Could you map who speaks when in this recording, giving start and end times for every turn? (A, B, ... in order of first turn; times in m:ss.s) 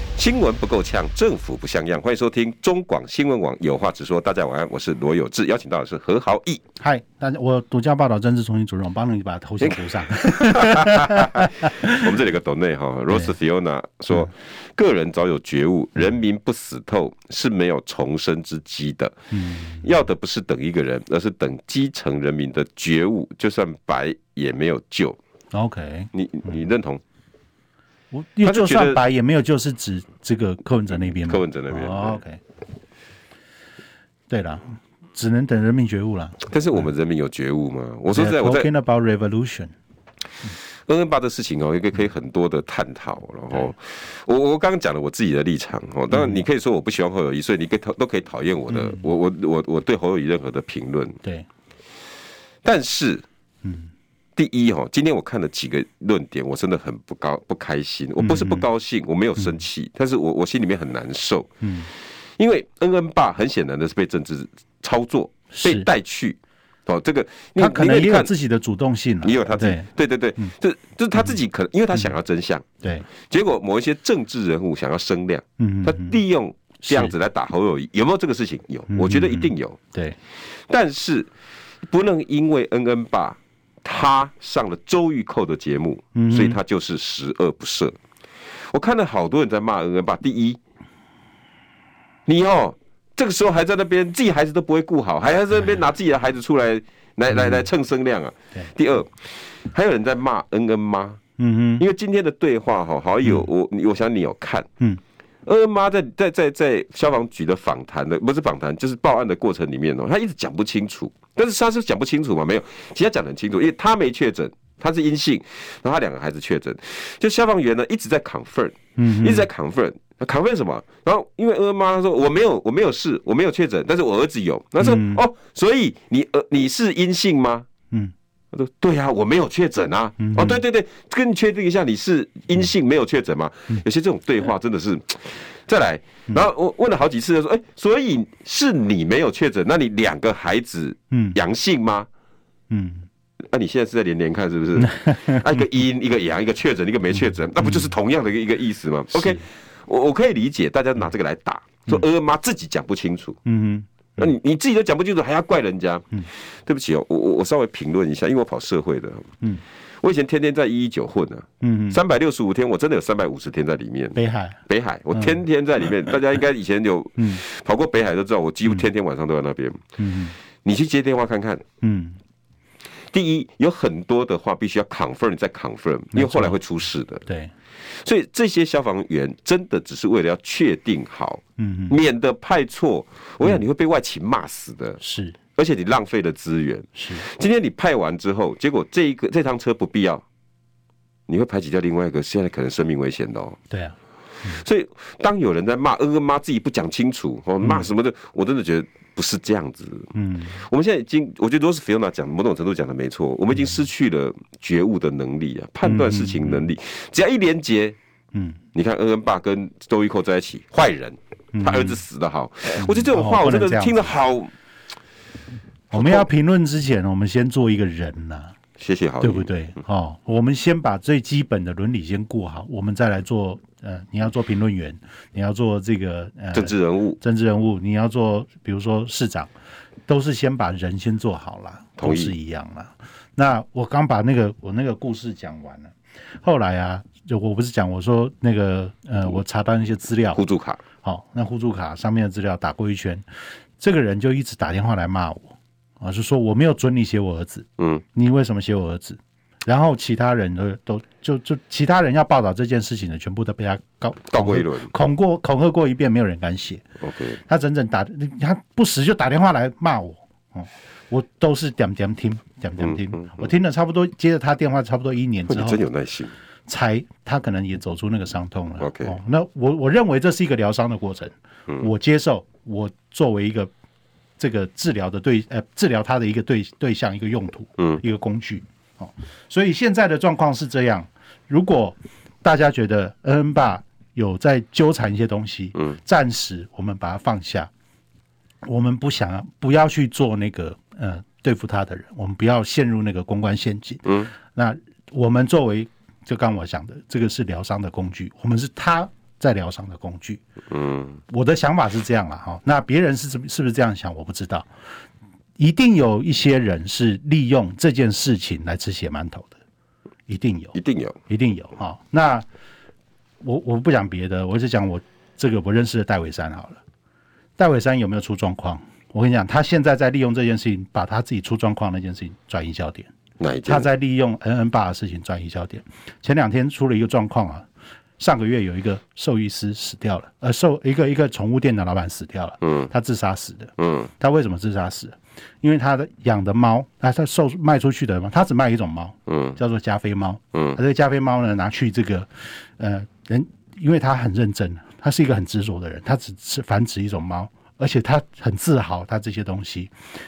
0:00.2-0:06.6 A
0:06.8-0:12.0 B
0:09.6-0:19.2 A
0:19.3-0:19.9 B
0:19.8-0:25.2 A
0:25.5-0:26.6 B
0:26.1-0:27.0 A
0:28.1-0:32.4 B
0:28.4-0:29.0 A
0:31.1-0:32.2 A
0:34.3-0:36.4 B
0:36.4-0:38.7 A
0:38.1-0:39.7 B
0:40.9-0:51.2 A
0:46.1-0:46.4 B
0:48.7-0:49.0 B
0:51.2-0:51.5 B
0:52.6-0:53.2 A
0:53.6-0:53.9 B
0:54.4-1:01.5 A
0:58.2-0:58.7 B
1:01.6-1:01.9 B
1:02.4-1:08.3 A
1:05.5-1:05.9 B
1:07.6-1:10.5 B
1:09.2-1:12.6 A
1:12.8-1:13.1 B
1:13.2-1:19.8 A
1:15.6-1:16.2 B
1:16.8-1:17.1 B
1:18.9-1:20.2 B
1:20.7-1:21.3 A
1:21.8-1:28.0 A
1:26.1-1:26.6 B
1:28.6-1:30.6 A
1:32.3-1:41.2 A
1:37.3-1:37.6 B
1:41.4-1:41.8 B
1:41.8-1:44.7 A
1:45.4-2:07.6 A
1:59.0-1:59.5 B
2:04.8-2:05.2 B
2:08.5-2:22.1 A
2:10.2-2:10.6 B
2:21.1-2:21.4 B
2:22.7-2:23.1 B
2:23.5-2:33.4 A
2:24.8-2:25.4 B
2:27.6-2:27.9 B
2:29.1-2:29.4 B
2:33.4-2:34.3 B
2:34.2-2:39.3 A
2:40.0-2:44.2 A
2:41.6-2:42.0 B
2:44.1-2:44.6 B
2:44.7-2:49.8 A
2:45.1-2:45.4 B
2:47.2-2:47.4 B
2:50.0-2:50.4 B
2:50.6-2:51.6 A
2:51.8-2:52.2 B
2:53.1-2:57.2 A
2:56.1-2:56.6 B
2:57.2-2:57.5 B
2:57.9-3:05.0 A
3:01.6-3:02.0 B
3:05.0-3:05.4 B
3:05.6-3:10.2 A
3:07.0-3:07.2 B
3:11.3-3:13.6 A
3:13.7-3:14.6 B
3:14.5-3:28.0 A
3:20.1-3:20.6 B
3:25.8-3:26.6 B
3:28.3-3:28.6 B
3:28.7-3:34.5 A
3:31.5-3:32.0 B
3:32.7-3:34.1 B
3:35.9-3:38.5 B
3:35.9-3:36.3 A
3:38.8-3:39.5 A
3:39.2-3:49.5 B
3:46.5-3:47.2 A
3:50.1-4:00.4 B
3:52.0-3:52.4 A
4:00.3-4:00.8 A
4:01.0-4:03.2 B
4:03.8-4:16.8 B
4:14.3-4:14.9 A
4:17.0-4:17.4 A
4:17.4-4:25.8 B
4:22.8-4:23.5 A
4:25.5-4:26.3 A
4:26.7-4:33.7 B
4:28.8-4:29.2 A
4:34.4-4:47.7 B
4:48.6-5:00.4 B
5:00.7-5:01.2 A
5:01.3-5:04.7 B
5:05.6-5:09.5 B
5:10.3-5:10.8 B
5:10.7-5:11.2 A
5:11.3-5:12.4 B
5:13.4-5:16.8 B
5:17.6-5:23.1 B
5:23.4-5:23.9 A
5:23.6-5:27.7 B
5:28.2-5:49.9 B
5:33.8-5:34.1 A
5:39.3-5:39.6 A